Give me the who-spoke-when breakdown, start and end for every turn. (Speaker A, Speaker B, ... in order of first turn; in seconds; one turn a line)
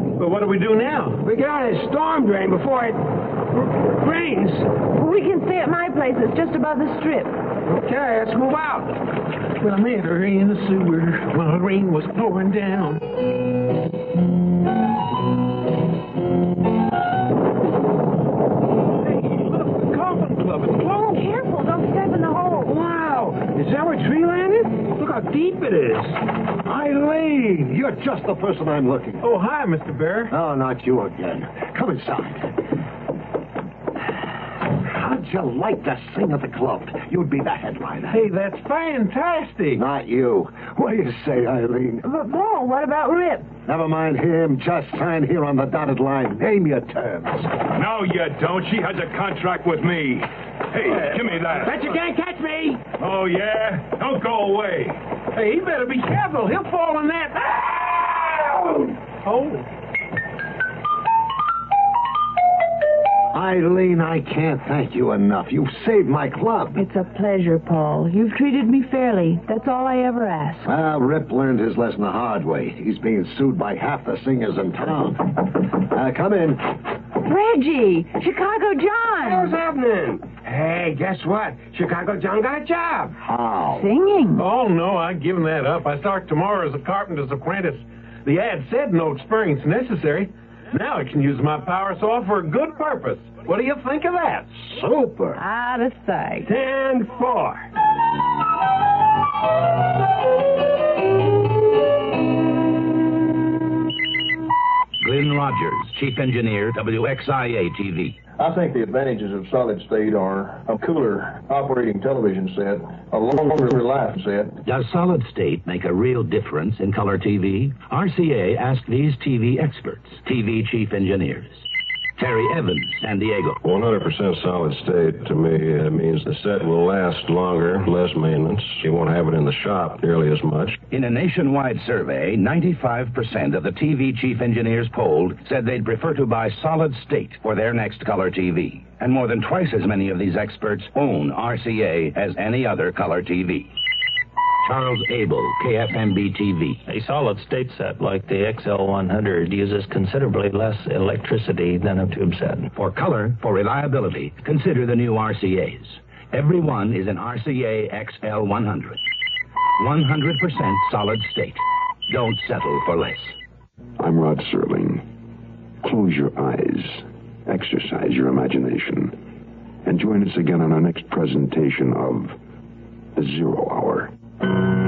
Speaker A: 0.2-1.2
Speaker B: 1.2-4.7
Speaker C: 4.9-7.4
Speaker B: 7.7-9.0
Speaker A: 9.6-13.0
Speaker A: 19.0-21.2
Speaker C: 21.1-22.8
Speaker B: 22.6-26.2
Speaker D: 26.6-29.2
Speaker A: 29.2-30.3
Speaker D: 30.3-32.5
Speaker D: 34.7-38.2
Speaker A: 38.1-39.8
Speaker D: 39.8-42.0
Speaker C: 42.0-43.5
Speaker D: 43.7-47.5
Speaker E: 47.7-51.8
Speaker B: 51.6-52.9
Speaker E: 53.0-55.0
Speaker A: 55.3-59.7
Speaker D: 63.3-66.8
Speaker C: 66.8-70.7
Speaker D: 70.7-76.7
Speaker C: 77.2-79.6
Speaker B: 79.2-83.2
Speaker D: 83.2-83.9
Speaker C: 83.7-84.5
Speaker A: 84.4-94.8
Speaker C: 95.3-96.5
Speaker B: 96.5-97.7
Speaker F: 105.0-108.2
Speaker G: 108.4-114.6
Speaker F: 114.6-121.7
Speaker F: 122.2-123.6
Speaker H: 123.6-130.8
Speaker F: 130.9-143.7
Speaker F: 144.6-146.8
Speaker I: 146.9-152.7
Speaker F: 152.7-159.0
Speaker F: 159.8-163.3
Speaker J: 164.0-165.1
Speaker J: 165.8-169.2
Speaker J: 169.8-172.4
Speaker J: 173.2-174.1